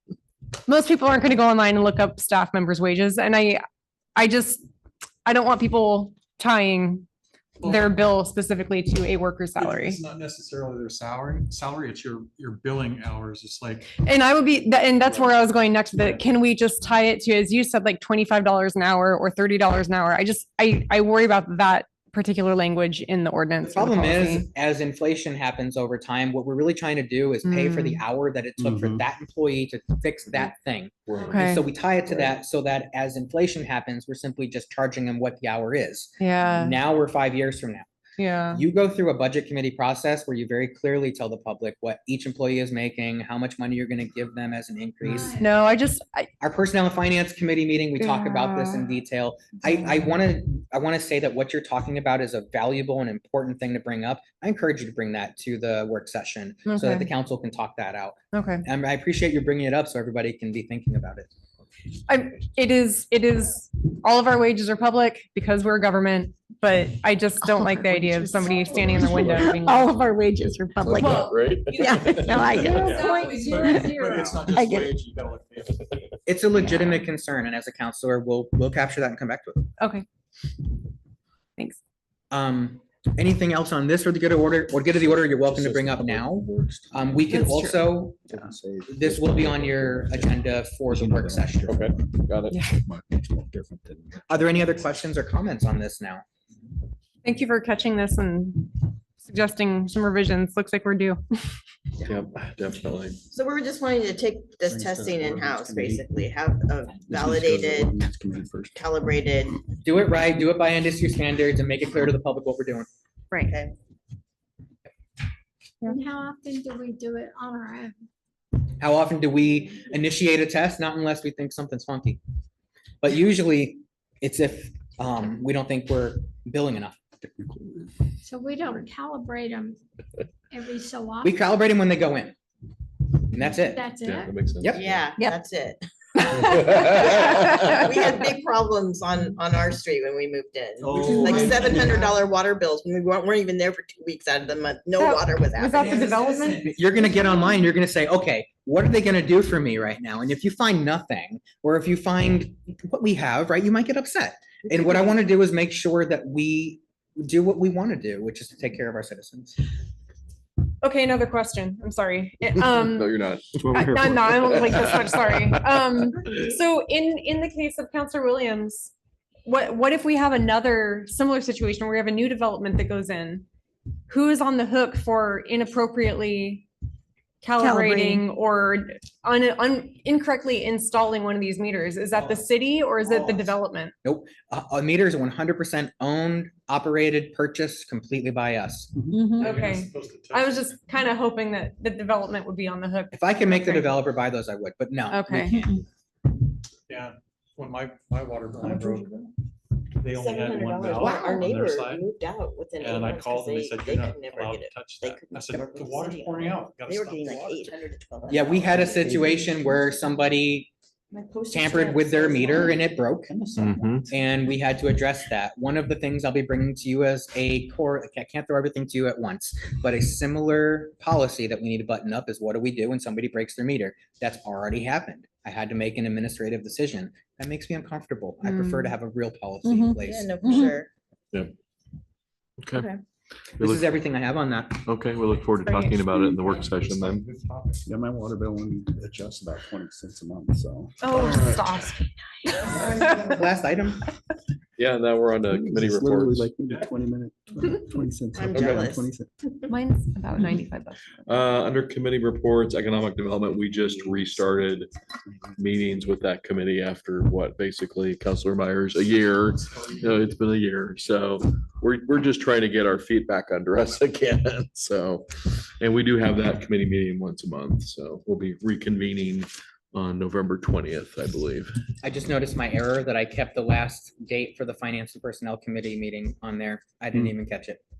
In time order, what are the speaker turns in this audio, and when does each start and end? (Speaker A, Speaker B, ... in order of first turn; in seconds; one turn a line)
Speaker A: 0.7-3.6
Speaker A: 4.2-4.6
Speaker A: 5.2-7.1
Speaker A: 7.6-10.0
Speaker B: 9.6-13.9
Speaker A: 14.0-24.5
Speaker B: 15.9-16.2
Speaker C: 23.7-37.9
Speaker A: 27.4-28.0
Speaker D: 28.6-29.0
Speaker E: 31.1-31.4
Speaker A: 31.2-31.7
Speaker A: 36.2-36.8
Speaker A: 38.2-38.6
Speaker C: 38.5-45.4
Speaker A: 45.2-46.3
Speaker C: 46.4-61.3
Speaker A: 48.0-48.8
Speaker A: 56.7-57.1
Speaker A: 58.3-58.6
Speaker A: 62.1-70.0
Speaker F: 67.4-71.3
Speaker E: 68.6-69.5
Speaker E: 70.8-72.8
Speaker A: 71.0-73.3
Speaker F: 71.9-72.7
Speaker B: 72.4-75.9
Speaker G: 72.6-74.3
Speaker F: 73.6-75.0
Speaker C: 76.3-79.7
Speaker A: 79.8-80.0
Speaker C: 82.3-91.9
Speaker D: 85.1-87.3
Speaker A: 87.3-88.0
Speaker D: 88.3-92.2
Speaker E: 91.7-92.6
Speaker A: 92.5-92.8
Speaker D: 92.8-94.8
Speaker C: 94.3-96.2
Speaker A: 97.2-101.2
Speaker E: 102.0-103.2
Speaker H: 103.3-107.9
Speaker D: 104.7-106.3
Speaker D: 107.0-108.8
Speaker H: 108.8-109.6
Speaker C: 109.8-112.9
Speaker H: 113.5-113.7
Speaker G: 115.8-118.0
Speaker C: 118.8-122.2
Speaker C: 123.0-127.0
Speaker D: 127.2-127.9
Speaker G: 128.2-129.8
Speaker G: 130.5-131.4
Speaker C: 131.2-132.3
Speaker C: 133.3-133.9
Speaker G: 133.5-134.3
Speaker E: 134.0-135.0
Speaker C: 134.6-134.9
Speaker H: 134.7-146.3
Speaker A: 136.5-136.9
Speaker C: 141.1-141.8
Speaker B: 141.3-141.9
Speaker A: 145.0-146.7
Speaker C: 145.9-159.6
Speaker A: 160.8-163.1
Speaker E: 162.7-165.6
Speaker D: 163.6-163.9
Speaker A: 163.7-168.9
Speaker A: 169.5-173.5
Speaker A: 174.1-176.7
Speaker A: 177.4-183.9
Speaker F: 177.6-178.2
Speaker B: 182.1-182.4
Speaker C: 184.0-188.9
Speaker D: 188.9-189.2
Speaker F: 189.1-189.5
Speaker B: 189.3-190.8
Speaker A: 189.4-194.0
Speaker C: 193.1-195.3
Speaker A: 195.1-195.7
Speaker F: 195.3-195.8
Speaker B: 196.9-199.1
Speaker B: 200.0-202.0
Speaker H: 200.1-209.7
Speaker B: 202.8-207.7
Speaker C: 208.3-210.7
Speaker H: 211.1-213.0
Speaker C: 211.5-213.3
Speaker D: 213.3-214.1
Speaker E: 213.6-214.1
Speaker C: 214.1-230.3
Speaker A: 228.4-228.9
Speaker F: 229.6-230.8
Speaker H: 230.0-230.9
Speaker E: 232.6-232.9
Speaker H: 232.7-233.0
Speaker E: 233.6-233.9
Speaker C: 233.6-234.9
Speaker E: 234.8-237.2
Speaker A: 235.6-236.0
Speaker B: 236.8-237.8
Speaker D: 237.8-241.4
Speaker A: 241.0-243.3
Speaker E: 241.1-241.9
Speaker C: 242.7-244.1
Speaker E: 244.8-246.5
Speaker D: 245.5-249.3
Speaker H: 248.3-249.1
Speaker E: 248.5-248.9
Speaker A: 249.7-251.2
Speaker E: 251.3-254.9
Speaker E: 255.6-265.3
Speaker E: 265.8-271.7
Speaker C: 272.0-277.8